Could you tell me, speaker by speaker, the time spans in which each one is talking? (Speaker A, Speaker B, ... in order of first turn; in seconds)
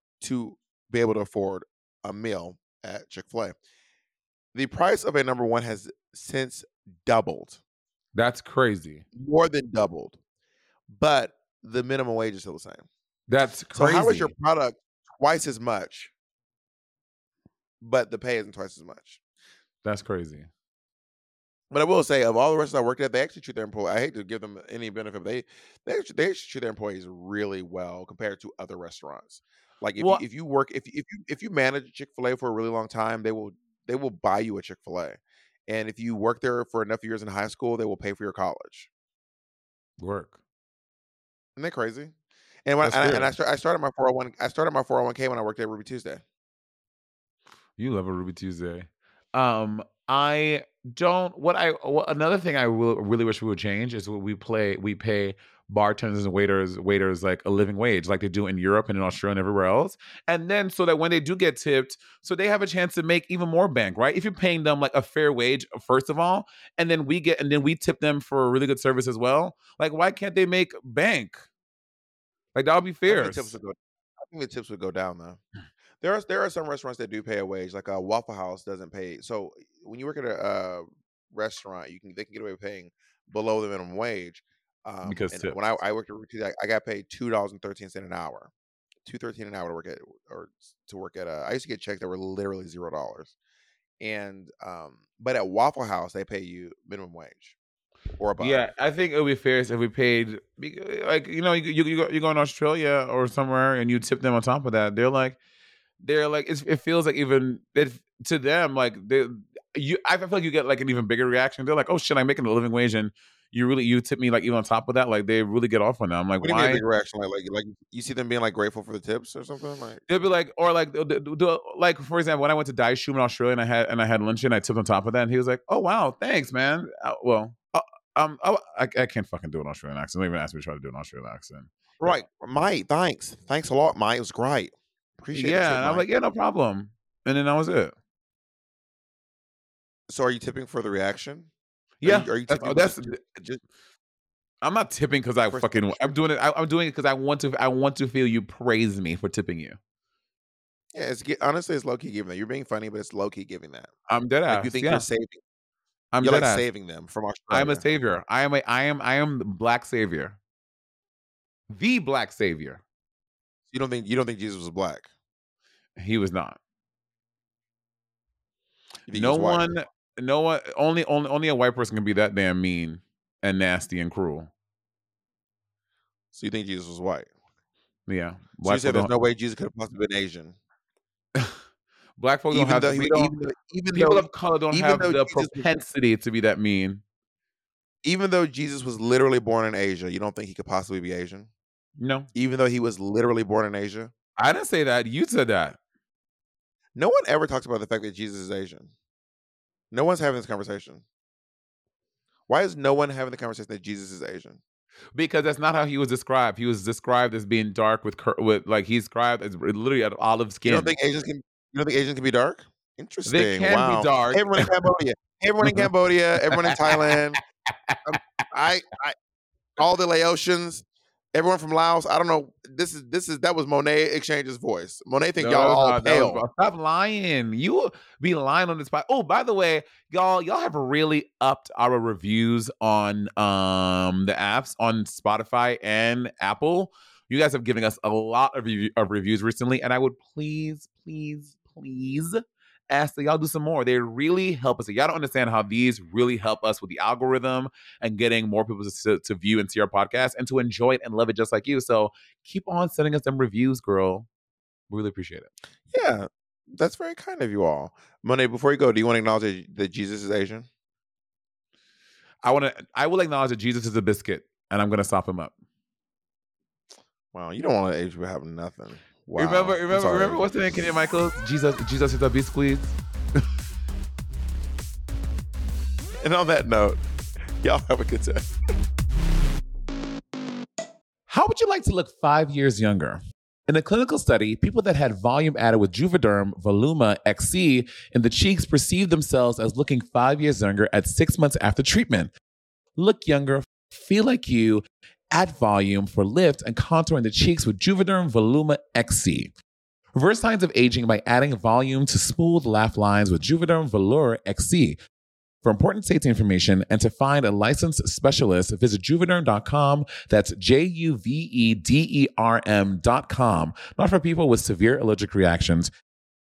Speaker A: 0.2-3.5, 4.5-7.6, 9.2-10.2, 10.9-12.9, 13.7-16.1, 17.8-19.2, 21.7-38.9, 41.6-42.1, 42.7-46.2, 73.1-75.4, 76.0-88.5, 89.0-93.3, 94.0-97.6, 98.2-98.7, 116.4-120.0, 132.0-136.1, 140.1-141.5, 142.0-143.6, 145.5-146.2, 150.9-153.9, 154.5-155.4, 156.2-157.8, 163.7-165.1, 169.1-169.7, 176.3-177.3, 178.6-180.6, 182.5-185.7, 188.0-191.5, 192.3-194.1, 197.0-198.9, 199.9-201.0, 202.5-204.6, 210.7-217.4, 218.1-219.2, 219.8-220.8, 221.3-226.4, 255.9-260.7, 267.3-270.4, 276.2-277.0, 277.6-278.5
Speaker B: 8.1-9.1, 13.3-14.3, 19.8-20.5, 30.0-30.2, 40.0-40.4, 42.8-43.3, 47.8-71.5, 72.5-73.5, 85.0-85.6, 98.4-105.4, 106.0-116.8, 120.1-132.2, 135.3-137.9, 142.0-143.2, 144.6-149.8, 154.1-155.1, 156.1-156.7, 157.5-160.4, 161.7-162.8, 166.0-166.6, 169.1-174.5, 178.1-179.1, 182.2-183.3, 183.9-187.0, 192.0-192.3, 194.4-195.8, 205.2-210.9, 213.3-214.7, 215.6-215.9, 216.5-217.2, 217.9-218.2, 225.4-254.3, 254.9-255.5, 262.4-265.5, 269.4-272.9, 281.3-292.3, 293.0-299.5, 300.1-305.0, 305.6-315.9